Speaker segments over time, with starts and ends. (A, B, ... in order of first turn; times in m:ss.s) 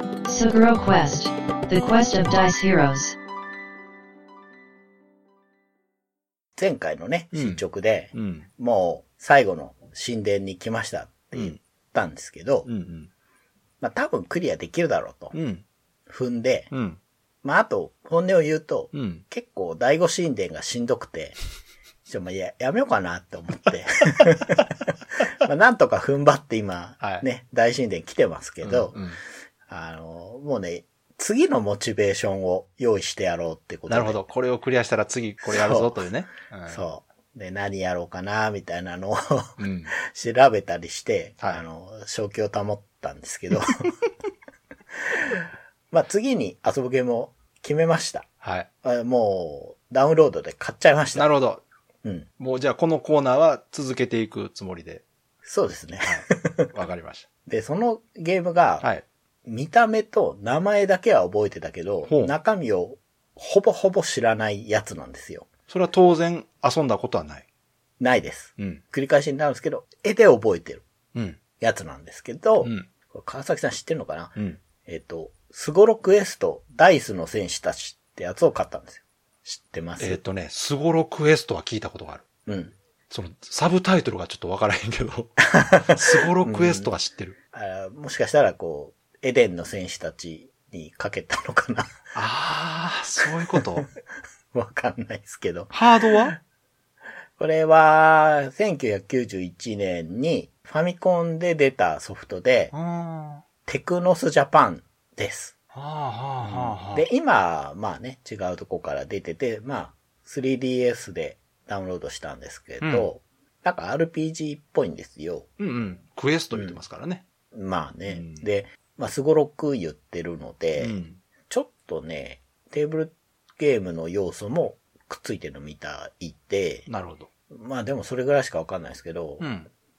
0:00.3-0:03.1 A
0:06.6-0:12.7 B
0:07.3-0:07.6 C
0:08.1-0:08.5 C
0:12.7-0:13.1 C
0:13.8-0:15.4 B
0:15.3-0:15.6 C
0:16.1-0:16.7 B
0:16.7-0:17.0 C
0:17.4-0:21.4 B
0:18.9-0:19.2 C
0:22.1-0:24.7 B
0:25.4-0:29.0 B
0:28.6-0:29.2 C
0:29.7-0:34.2 B
0:33.9-0:36.8 C
0:35.4-0:36.0 B
0:36.7-0:43.7 B
0:39.6-0:39.9 C
0:45.9-0:48.3 B
0:48.4-0:48.7 C
0:48.8-0:51.3 B
0:51.2-0:51.6 C
0:52.4-0:55.0 C
0:55.4-0:56.7 B
0:56.0-0:57.3 C
0:57.5-0:58.9 B
0:59.4-1:05.5 B
1:02.1-1:02.3 C
1:05.7-1:07.4 C
1:08.0-1:10.8 B
1:11.1-1:11.4 C
1:11.6-1:20.2 B
1:20.0-1:22.2 C
1:22.5-1:22.8 B
1:23.1-1:25.4 C
1:25.4-1:26.9 B
1:25.9-1:27.4 C
1:27.5-1:31.9 B
1:32.2-1:33.8 C
1:33.5-1:33.8 B
1:34.5-1:36.4 B
1:35.7-1:36.3 C
1:37.4-1:42.7 B
1:42.7-1:43.4 C
1:43.6-1:45.6 B
1:45.7-1:47.0 C
1:46.4-1:55.5 B
1:52.8-1:53.1 C
1:55.6-1:57.3 C
1:56.5-1:56.8 B
1:57.5-2:01.0 B
1:58.1-1:58.4 C
2:00.8-2:01.2 C
2:01.5-2:06.9 B
2:06.9-2:07.3 C
2:07.5-2:09.5 B
2:09.4-2:09.7 C